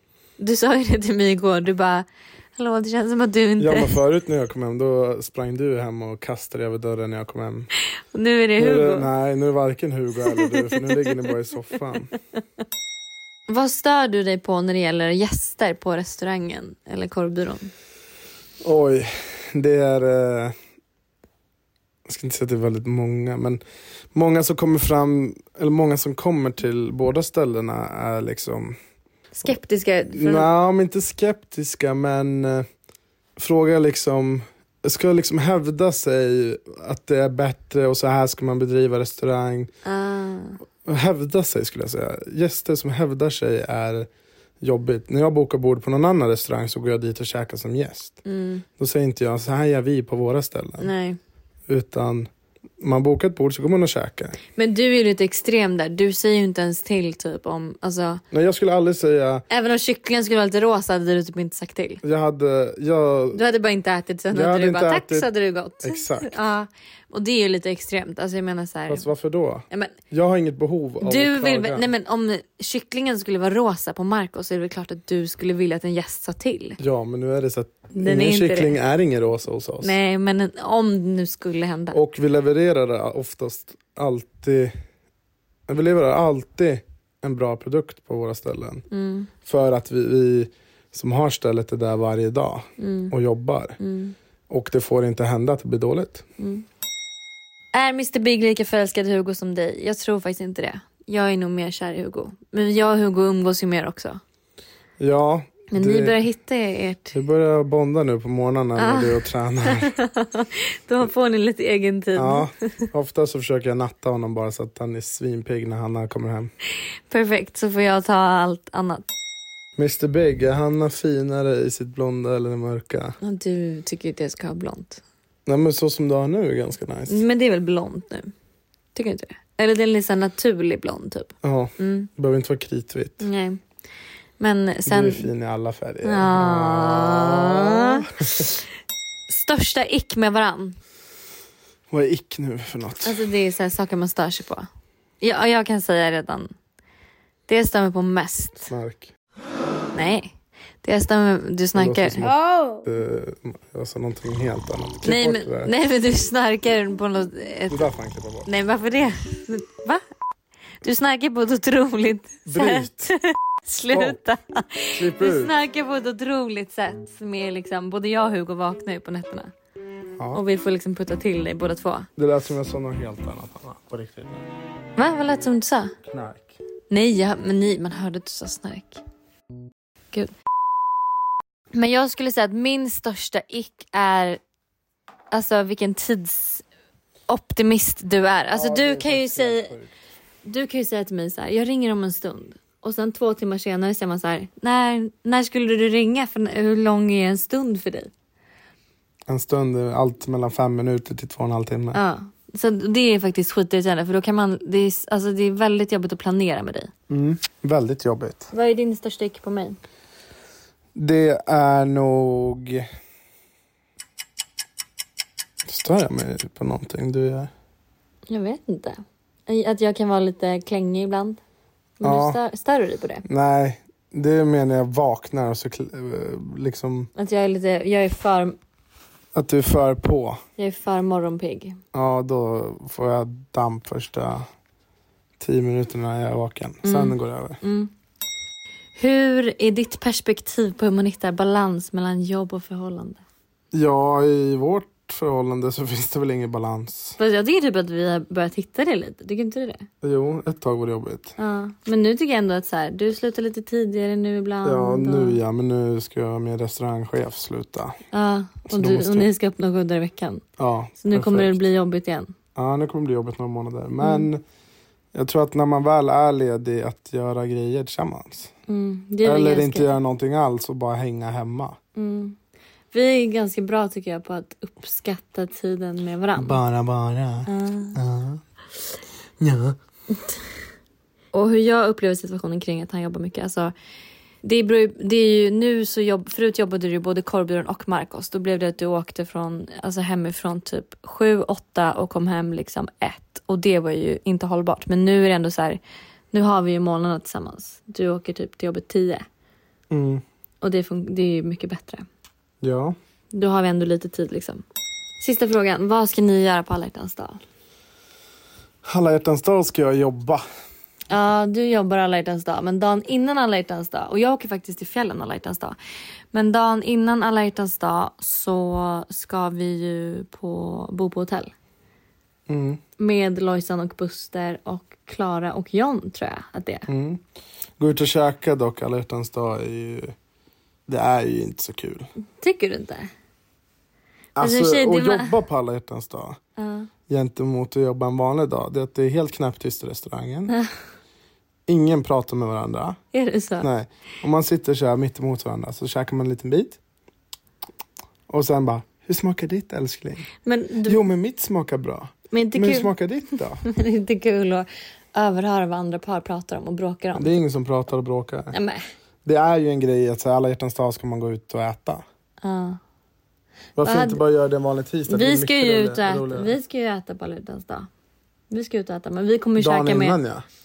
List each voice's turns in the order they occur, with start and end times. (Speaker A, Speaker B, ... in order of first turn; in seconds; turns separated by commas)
Speaker A: 0.4-4.0, Speaker B: 3.6-7.7, Speaker A: 8.1-9.1, Speaker B: 8.6-12.1, Speaker A: 10.3-11.3, Speaker A: 13.5-17.7, Speaker B: 18.6-20.5, Speaker B: 22.1-23.6, Speaker B: 24.1-28.8, Speaker A: 29.4-30.5, Speaker B: 30.1-32.7, Speaker B: 33.4-39.7, Speaker A: 39.9-40.6, Speaker B: 40.8-44.1, Speaker B: 44.6-48.2, Speaker A: 48.2-48.6, Speaker B: 48.8-50.9, Speaker A: 50.8-51.2, Speaker B: 51.7-52.3, Speaker B: 52.8-54.4, Speaker A: 54.6-58.2, Speaker B: 58.3-59.5, Speaker A: 59.5-62.0, Speaker B: 62.0-63.4, Speaker A: 63.3-69.1, Speaker B: 64.3-66.4, Speaker B: 68.9-71.9, Speaker A: 69.7-70.0, Speaker A: 71.0-76.8, Speaker B: 76.8-80.0, Speaker A: 78.0-78.8, Speaker A: 79.8-82.0, Speaker B: 81.9-84.8, Speaker B: 85.7-88.8, Speaker A: 88.9-89.3, Speaker B: 89.5-93.8, Speaker A: 92.8-93.1, Speaker A: 93.8-94.2, Speaker B: 94.5-96.2, Speaker A: 96.4-96.7, Speaker A: 97.7-104.2, Speaker B: 105.0-106.2, Speaker A: 105.7-107.2, Speaker B: 107.1-109.9, Speaker A: 108.8-112.5, Speaker B: 112.2-116.5, Speaker A: 117.1-119.1, Speaker B: 119.8-123.2, Speaker A: 123.2-125.0, Speaker B: 125.5-127.2, Speaker A: 127.1-128.3, Speaker A: 128.9-132.1, Speaker B: 131.4-133.3, Speaker A: 133.2-133.6, Speaker A: 134.4-135.3, Speaker B: 134.9-138.5, Speaker A: 136.0-138.5, Speaker A: 139.3-140.8, Speaker B: 141.9-143.2, Speaker A: 143.0-144.7, Speaker A: 145.2-146.5, Speaker A: 147.5-148.7, Speaker B: 148.7-149.1, Speaker A: 149.9-152.8, Speaker B: 151.8-155.7, Speaker A: 155.0-157.9, Speaker B: 157.7-158.5, Speaker A: 158.4-160.0, Speaker A: 160.8-169.5, Speaker B: 162.5-163.1, Speaker B: 163.9-164.2, Speaker B: 164.9-165.5, Speaker A: 170.3-172.1, Speaker B: 172.2-174.5, Speaker A: 175.0-175.9, Speaker B: 176.1-176.6, Speaker A: 176.9-179.0, Speaker A: 181.7-184.4, Speaker A: 185.3-186.6, Speaker A: 187.3-189.7, Speaker B: 188.5-189.9, Speaker A: 190.4-198.1, Speaker B: 199.3-202.0, Speaker A: 201.9-206.9, Speaker B: 207.1-208.5, Speaker A: 208.5-209.8, Speaker B: 210.9-212.9, Speaker B: 215.7-217.5, Speaker A: 218.3-221.4, Speaker A: 222.0-223.2, Speaker B: 222.0-222.4, Speaker B: 223.2-227.1, Speaker A: 227.2-228.6, Speaker B: 229.3-230.4, Speaker A: 230.6-231.8, Speaker B: 231.9-234.5, Speaker B: 235.4-237.6, Speaker A: 236.8-237.9, Speaker A: 239.0-243.2, Speaker B: 243.7-247.2, Speaker A: 247.2-249.9, Speaker B: 250.0-251.3, Speaker A: 251.4-255.4, Speaker B: 254.6-258.0, Speaker A: 258.1-260.4, Speaker B: 258.7-259.3, Speaker B: 260.6-261.6, Speaker A: 261.0-262.3, Speaker B: 262.6-264.4, Speaker A: 264.0-264.3, Speaker B: 265.1-268.5, Speaker A: 268.7-269.9, Speaker B: 269.2-271.8, Speaker A: 271.9-272.4, Speaker A: 272.9-276.6, Speaker B: 276.4-278.4, Speaker A: 277.5-278.0, Speaker B: 279.4-279.8, Speaker A: 281.3-283.7, Speaker A: 284.4-295.8, Speaker A: 296.3-299.2, Speaker B: 299.9-300.2, Speaker A: 300.6-302.1, Speaker B: 302.6-303.0, Speaker A: 303.3-304.6, Speaker A: 305.2-307.4, Speaker B: 308.9-310.4, Speaker A: 311.1-315.8, Speaker A: 316.3-321.5, Speaker B: 322.5-322.8, Speaker A: 323.0-326.9, Speaker B: 326.9-327.2, Speaker B: 327.8-330.1, Speaker B: 330.9-332.1, Speaker A: 332.4-333.1, Speaker B: 334.4-336.4, Speaker A: 334.4-335.4, Speaker A: 336.6-336.9, Speaker B: 337.1-340.6, Speaker B: 341.7-343.0, Speaker A: 343.1-343.7, Speaker B: 343.6-346.8, Speaker B: 348.3-350.3, Speaker A: 350.4-351.0, Speaker B: 350.8-353.6, Speaker A: 352.3-352.9, Speaker A: 353.6-357.4, Speaker B: 357.1-358.6, Speaker A: 358.5-358.8, Speaker B: 359.2-362.0, Speaker A: 362.4-362.8, Speaker B: 363.8-366.6, Speaker A: 363.8-364.2, Speaker A: 365.1-367.9, Speaker A: 368.5-370.2, Speaker B: 369.6-370.4